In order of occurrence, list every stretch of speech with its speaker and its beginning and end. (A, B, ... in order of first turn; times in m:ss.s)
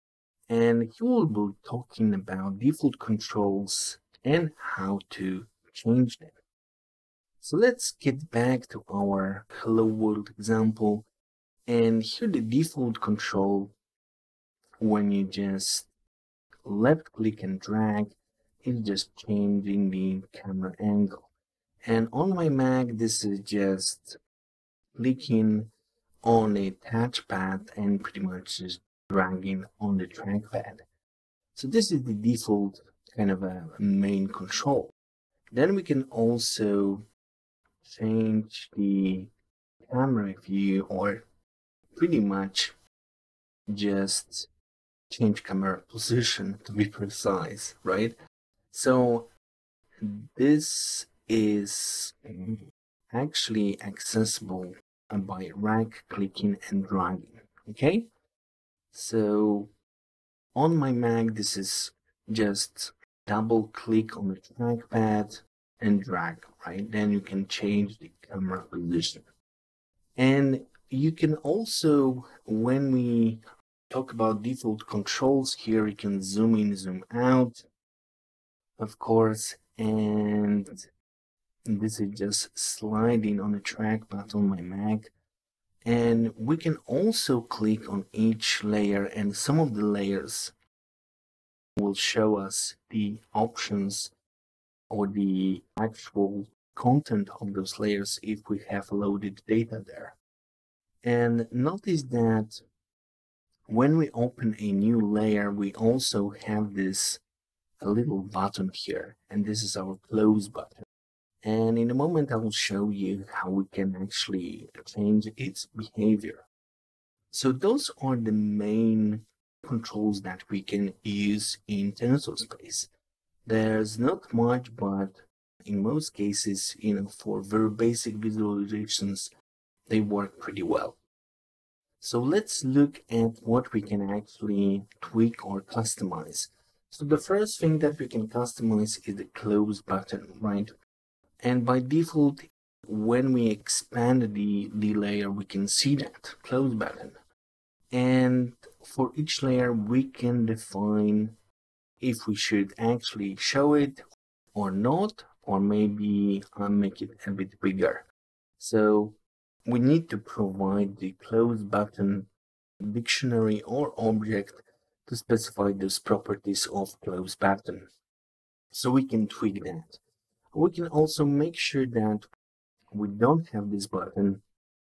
0:00.5-0:06.4 A
0:07.4-0:11.1 A
0:11.7-0:13.7 A
0:14.8-0:15.9 A
0:16.6-0:21.3 A
0:21.8-0:24.2 A
0:24.9-0:25.7 A
0:26.2-0:30.8 A
0:31.5-0:34.9 A
0:35.5-0:37.0 A
0:37.8-0:39.3 A
0:39.9-0:41.2 A
0:42.0-0:42.7 A
0:43.7-0:44.5 A
0:45.1-0:48.1 A
0:48.7-0:49.3 A
0:50.0-0:52.6 A
0:53.1-0:58.1 A
0:58.9-0:59.7 A
1:00.5-1:09.2 A
1:10.2-1:17.6 A
1:18.8-1:20.9 A
1:21.7-1:25.1 A
1:25.8-1:30.5 A
1:31.8-1:34.1 A
1:34.9-1:40.2 A
1:41.0-1:42.6 A
1:43.7-1:47.2 A
1:47.8-1:50.8 A
1:51.4-1:56.4 A
1:57.3-2:02.9 A
2:03.4-2:09.3 A
2:09.9-2:11.0 A
2:12.0-2:20.7 A
2:21.4-2:27.2 A
2:27.9-2:31.4 A
2:32.0-2:34.0 A
2:34.5-2:38.0 A
2:38.6-2:42.3 A
2:42.8-2:47.9 A
2:48.7-2:50.0 A
2:50.5-2:52.3 A
2:52.9-2:54.4 A